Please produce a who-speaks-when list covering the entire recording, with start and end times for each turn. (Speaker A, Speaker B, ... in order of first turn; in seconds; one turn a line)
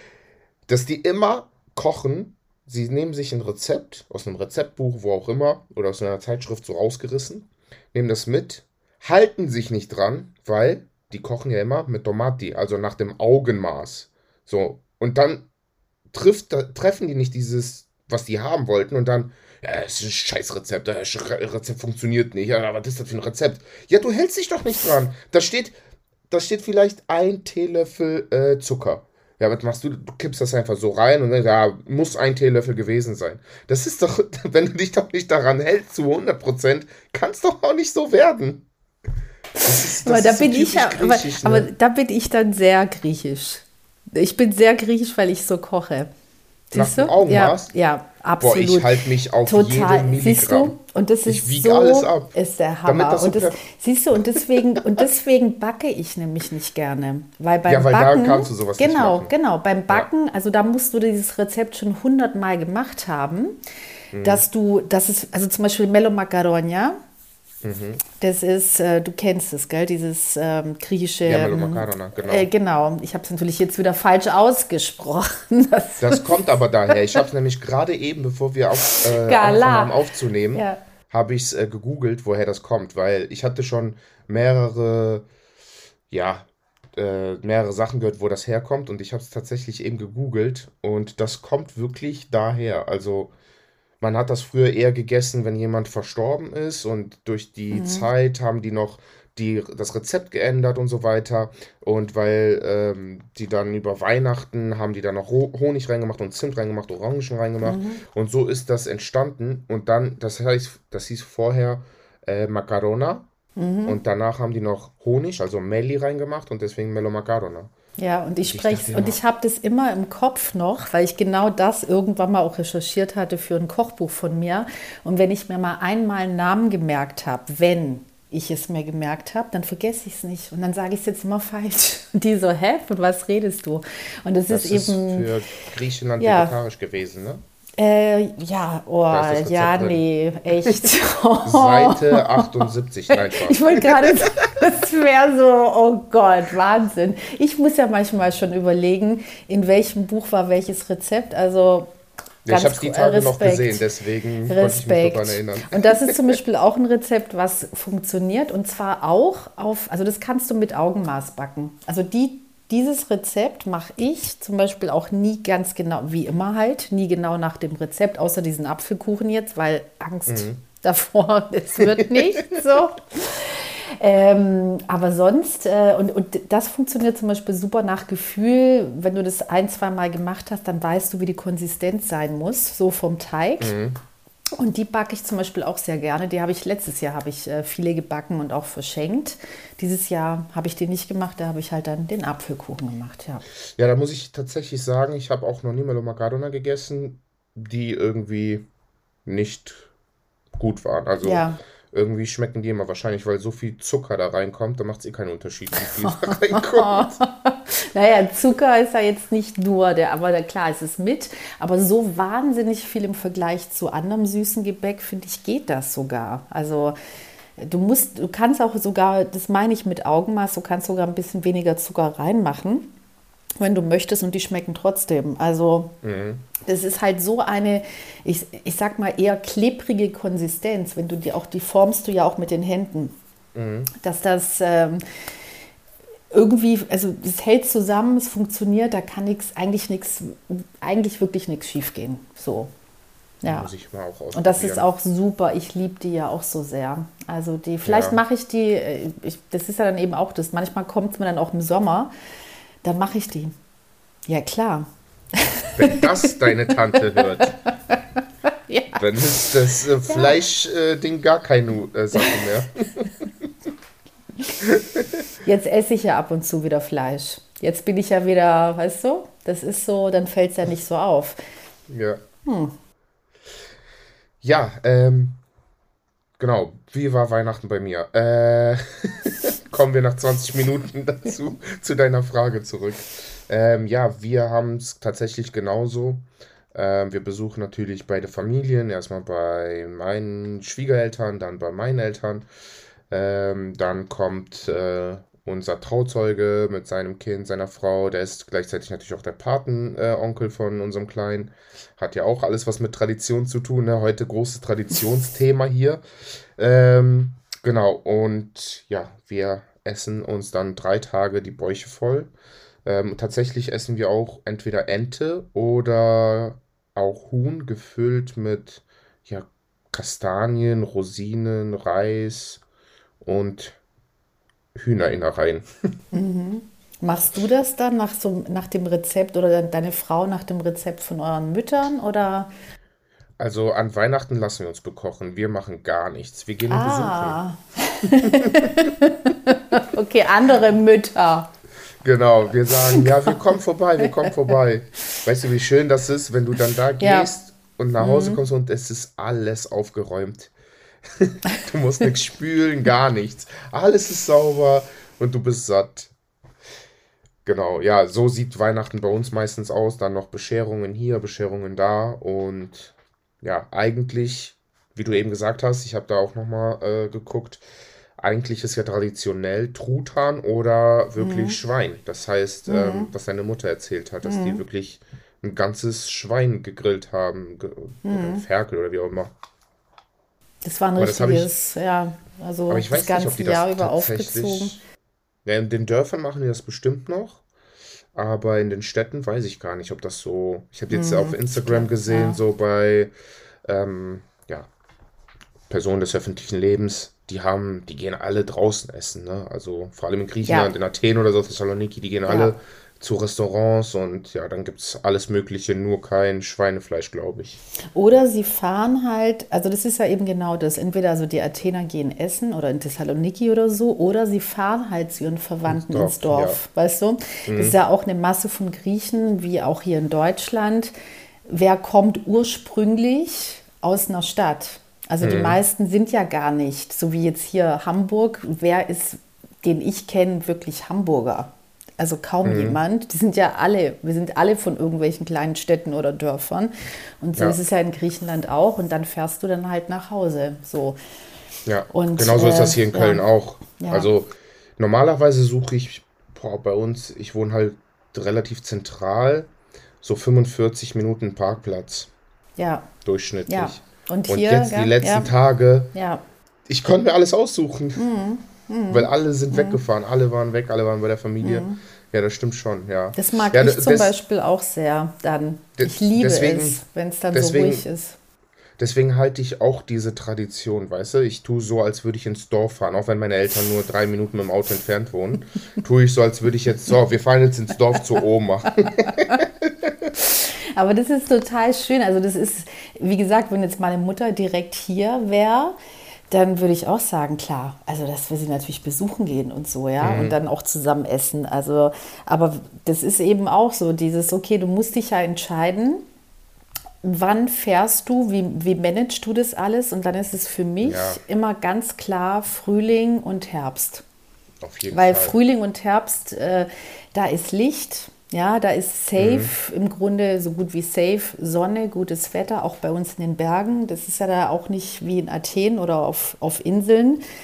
Speaker A: 0.7-15.5
Speaker A: 16.1-25.8
Speaker A: 26.3-38.7
Speaker B: 39.6-46.1
Speaker A: 39.6-41.7
Speaker B: 46.7-48.9
Speaker A: 46.7-47.7
Speaker A: 48.4-50.8
Speaker B: 49.5-63.6
Speaker A: 51.3-52.3
Speaker A: 52.9-53.6
Speaker A: 54.4-54.8
Speaker A: 57.7-59.3
Speaker A: 64.1-64.5
Speaker B: 64.2-67.0
Speaker A: 67.6-68.0
Speaker B: 68.2-77.2
Speaker A: 71.3-72.5
Speaker A: 76.0-85.3
Speaker B: 78.8-80.0
Speaker B: 80.5-80.8
Speaker A: 86.1-93.3
Speaker A: 94.0-113.3
Speaker B: 97.7-98.1
Speaker B: 107.6-108.0
Speaker B: 113.6-114.0
Speaker A: 113.8-117.7
Speaker B: 118.0-135.3
Speaker A: 118.5-119.2
Speaker A: 134.5-137.4
Speaker B: 136.2-136.6
Speaker B: 137.8-151.9
Speaker A: 139.1-140.0
Speaker A: 141.4-144.4
Speaker A: 152.5-156.2
Speaker B: 152.5-153.9
Speaker B: 154.5-183.7
Speaker A: 170.3-170.6
Speaker A: 171.8-172.2
Speaker A: 183.6-184.0
Speaker B: 184.6-193.4
Speaker A: 193.8-198.7
Speaker A: 199.3-199.9
Speaker A: 200.6-207.1
Speaker B: 201.2-201.6
Speaker B: 205.7-217.0
Speaker B: 217.6-222.9
Speaker B: 223.6-226.0
Speaker A: 226.0-226.5
Speaker B: 226.6-233.2
Speaker A: 233.6-233.9
Speaker B: 234.0-235.0
Speaker B: 236.3-242.7
Speaker B: 243.4-243.7
Speaker A: 243.4-244.9
Speaker B: 244.3-252.1
Speaker A: 247.8-248.2
Speaker B: 252.8-253.6
Speaker B: 254.3-260.4
Speaker A: 255.8-257.6
Speaker A: 259.0-263.1
Speaker B: 262.1-262.4
Speaker A: 264.6-265.2
Speaker B: 265.4-271.4
Speaker A: 271.9-272.2
Speaker B: 272.4-272.8
Speaker A: 274.4-275.4
Speaker A: 276.4-292.5
Speaker A: 293.1-306.0
Speaker A: 306.6-312.3
Speaker A: 312.9-322.6
Speaker A: 323.2-323.8
Speaker A: 324.8-325.7
Speaker B: 326.1-332.5
Speaker A: 333.4-337.4
Speaker B: 336.7-341.5
Speaker A: 338.2-338.9
Speaker A: 342.0-350.5
Speaker B: 342.8-343.4
Speaker B: 344.0-344.3
Speaker B: 347.0-347.3
Speaker B: 348.0-348.4
Speaker A: 351.1-356.1
Speaker A: 357.4-367.6
Speaker A: 368.2-379.3
Speaker B: 371.2-371.6
Speaker B: 372.7-373.1
Speaker B: 374.2-374.6
Speaker B: 378.0-378.4
Speaker B: 380.6-384.8
Speaker A: 381.0-381.5
Speaker A: 382.7-384.8
Speaker A: 385.4-387.4
Speaker A: 388.1-393.1
Speaker B: 390.9-392.4
Speaker A: 393.6-394.7
Speaker A: 395.7-407.6
Speaker B: 400.4-400.7
Speaker B: 402.3-402.6
Speaker B: 407.9-420.9
Speaker A: 415.7-416.6
Speaker A: 417.5-417.8
Speaker B: 421.5-441.0
Speaker A: 425.2-425.6
Speaker A: 432.4-432.8
Speaker A: 441.7-449.5
Speaker B: 441.9-443.3
Speaker B: 443.8-444.1
Speaker A: 450.0-452.1
Speaker B: 452.6-452.9
Speaker A: 453.1-455.9
Speaker B: 453.5-455.3
Speaker B: 455.9-456.2
Speaker A: 456.7-458.1
Speaker B: 458.0-459.8
Speaker A: 458.9-464.1
Speaker B: 461.4-461.8
Speaker B: 463.1-468.2
Speaker A: 465.8-466.8
Speaker A: 467.3-467.9
Speaker A: 468.8-480.1
Speaker B: 480.2-485.8
Speaker B: 486.3-496.1
Speaker A: 490.0-490.4
Speaker B: 497.0-504.1
Speaker A: 500.8-501.2
Speaker A: 504.6-505.4
Speaker B: 504.9-517.2
Speaker A: 509.2-509.5